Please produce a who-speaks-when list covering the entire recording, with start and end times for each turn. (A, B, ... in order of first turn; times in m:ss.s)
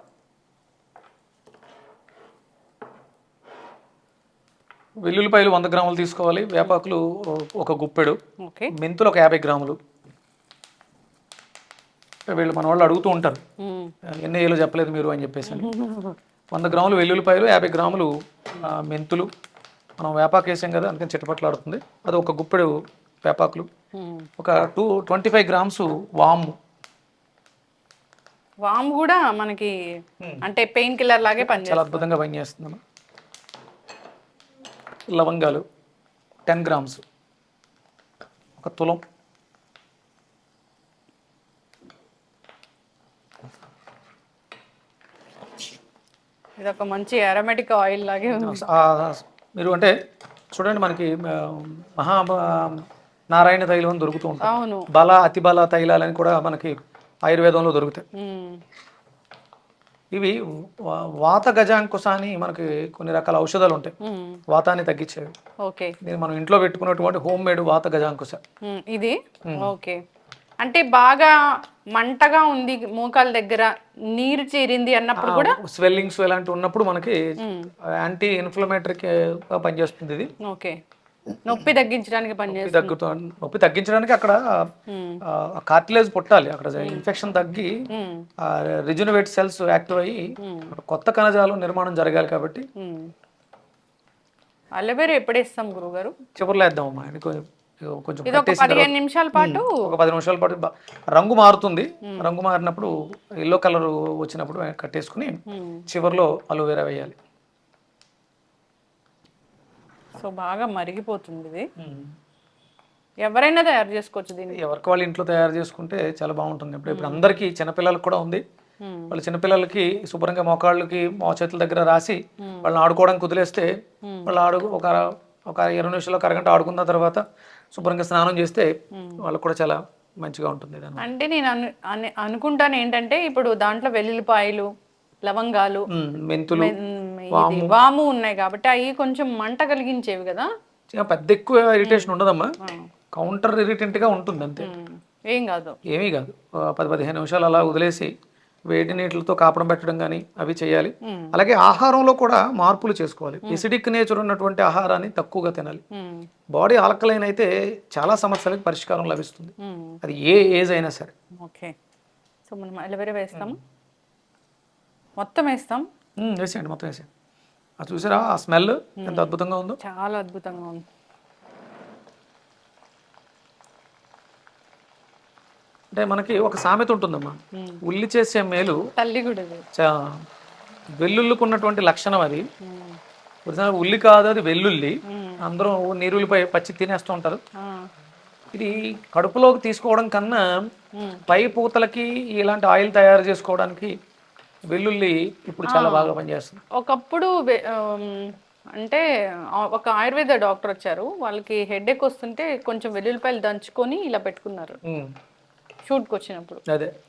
0:05.0-0:08.2 A
0:08.4-0:08.7 B
0:08.8-0:09.8 A
0:12.3-0:13.4 A
0:13.6-0:13.9 B
0:14.1-0:15.7 A
0:15.5-0:16.2 B
0:16.5-0:19.3 A
0:20.0-0:23.7 A
0:23.9-0:24.3 B
0:24.4-0:26.6 A
0:28.6-0:29.7 B
0:30.4-0:32.1 B
0:31.4-0:32.8 A
0:35.1-0:35.6 A
0:36.5-0:37.0 A
0:38.6-0:39.0 A
0:46.6-0:48.6 B
0:48.4-0:49.9 A
0:50.5-0:58.0 A
0:54.4-0:54.9 B
0:58.2-0:58.6 B
1:00.1-1:03.9 A
1:04.0-1:04.4 B
1:04.5-1:05.3 A
1:05.6-1:06.0 B
1:06.0-1:08.4 A
1:08.6-1:10.0 B
1:10.6-1:11.3 B
1:12.0-1:15.6 B
1:15.2-1:17.2 A
1:17.4-1:17.7 B
1:18.0-1:20.3 A
1:20.4-1:20.8 B
1:21.4-1:23.0 B
1:22.5-1:24.7 A
1:24.9-1:25.2 B
1:25.3-1:27.8 A
1:26.8-1:27.0 B
1:27.9-1:28.3 B
1:28.4-1:32.7 A
1:30.4-1:30.7 B
1:32.8-1:33.1 B
1:34.8-1:36.1 B
1:36.4-1:47.2 A
1:38.3-1:39.7 B
1:45.5-1:45.8 B
1:50.2-1:51.7 B
1:51.8-1:52.1 A
1:53.2-1:54.6 B
1:54.5-1:58.4 A
1:56.9-1:57.3 B
1:58.8-1:59.2 B
1:59.1-2:03.7 A
2:02.4-2:02.7 B
2:04.0-2:04.3 B
2:04.3-2:05.0 A
2:05.5-2:07.2 A
2:07.7-2:11.0 A
2:09.0-2:09.2 B
2:11.0-2:14.7 B
2:15.2-2:15.8 B
2:15.9-2:16.8 A
2:16.5-2:20.5 B
2:17.3-2:17.8 A
2:20.9-2:22.5 A
2:21.8-2:22.9 B
2:23.1-2:24.7 A
2:24.6-2:25.8 B
2:25.9-2:28.1 A
2:28.7-2:35.8 A
2:31.0-2:31.3 B
2:35.9-2:36.3 B
2:36.5-2:41.1 A
2:39.6-2:40.0 B
2:41.4-2:41.7 B
2:42.5-2:43.6 B
2:45.2-2:45.9 B
2:46.2-2:47.1 A
2:47.8-2:49.8 A
2:49.0-2:50.8 B
2:55.9-2:58.8 A
2:59.0-2:59.6 B
2:59.8-3:00.2 A
3:01.0-3:02.5 A
3:02.6-3:03.0 B
3:03.5-3:07.4 A
3:05.1-3:05.4 B
3:07.6-3:07.9 B
3:08.5-3:10.6 A
3:11.0-3:11.2 B
3:11.3-3:13.9 A
3:14.7-3:16.6 A
3:15.7-3:16.1 B
3:16.8-3:19.0 B
3:19.6-3:24.8 B
3:24.8-3:25.1 A
3:25.9-3:26.6 B